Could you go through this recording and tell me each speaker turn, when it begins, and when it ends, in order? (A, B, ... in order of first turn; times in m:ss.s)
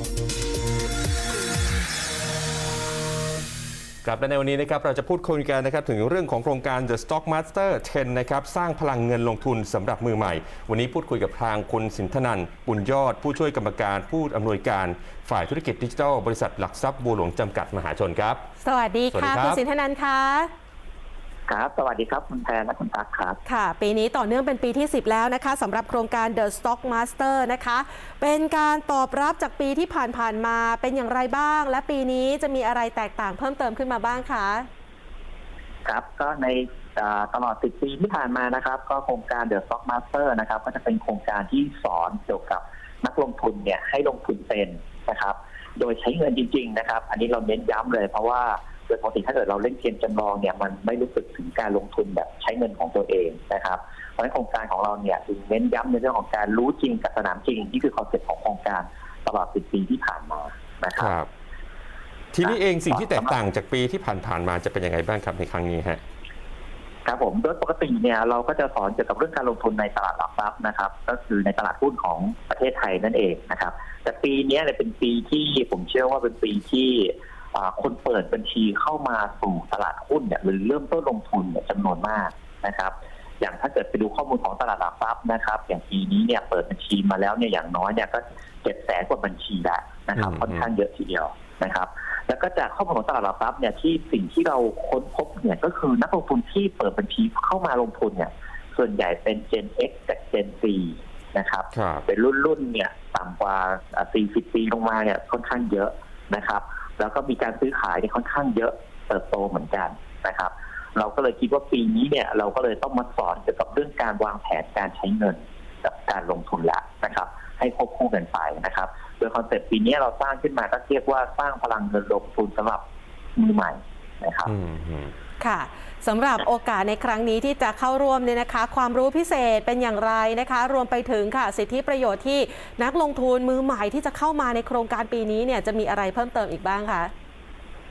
0:04.0-0:18.4 A
0:18.6-0:20.5 B
0:19.1-0:19.6 A
0:21.5-0:23.4 C
0:23.4-0:34.7 B
0:35.8-1:01.1 C
1:01.0-1:01.3 A
1:02.3-1:06.0 A
1:02.4-1:03.4 C
1:07.0-2:02.8 C
1:30.2-1:30.6 A
1:41.7-1:42.0 A
2:03.4-2:04.5 C
2:04.4-2:05.1 A
2:05.4-2:17.1 B